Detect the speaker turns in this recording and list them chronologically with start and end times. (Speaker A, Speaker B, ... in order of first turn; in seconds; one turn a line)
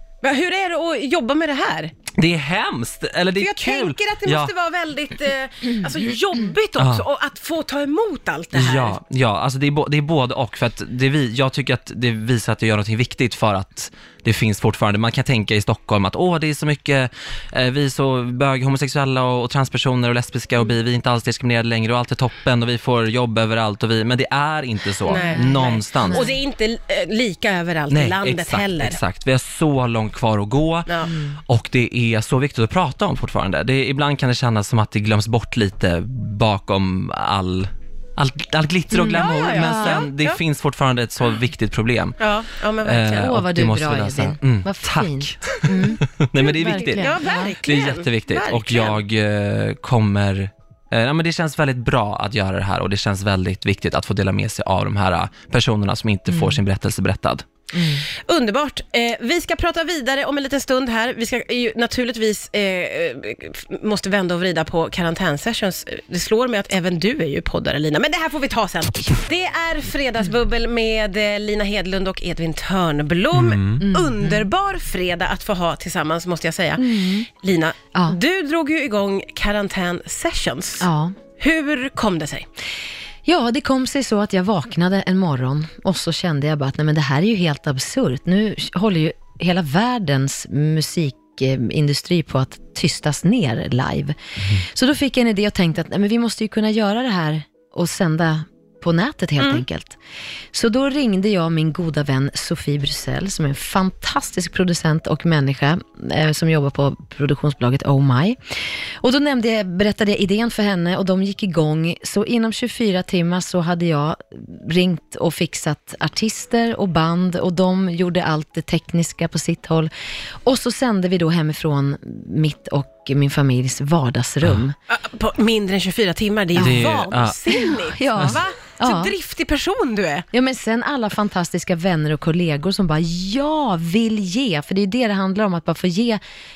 Speaker A: 0.2-1.9
Speaker B: 2.1-4.5
Speaker A: 3.4-9.0
Speaker B: 6.8-7.0
Speaker B: 8.5-26.3
Speaker A: 25.1-29.0
Speaker C: 25.1-26.4
Speaker B: 27.9-42.2
Speaker A: 30.9-31.1
Speaker C: 31.1-31.4
Speaker C: 38.9-40.0
Speaker A: 39.1-40.4
Speaker A: 42.2-43.4
Speaker B: 42.8-57.5
Speaker C: 43.1-47.5
Speaker A: 46.5-49.0
Speaker C: 56.3-56.6
Speaker C: 57.7-58.1
Speaker A: 58.1-80.9
Speaker B: 73.3-73.8
Speaker C: 73.8-74.5
Speaker C: 76.8-77.3
Speaker C: 80.8-81.2
Speaker A: 81.4-82.5
Speaker C: 83.3-100.0
Speaker C: 100.5-108.4
Speaker C: 109.0-119.9
Speaker C: 120.5-124.8
Speaker A: 124.9-130.3
Speaker C: 126.6-126.9
Speaker B: 126.6-127.4
Speaker C: 127.5-129.1
Speaker C: 130.3-136.2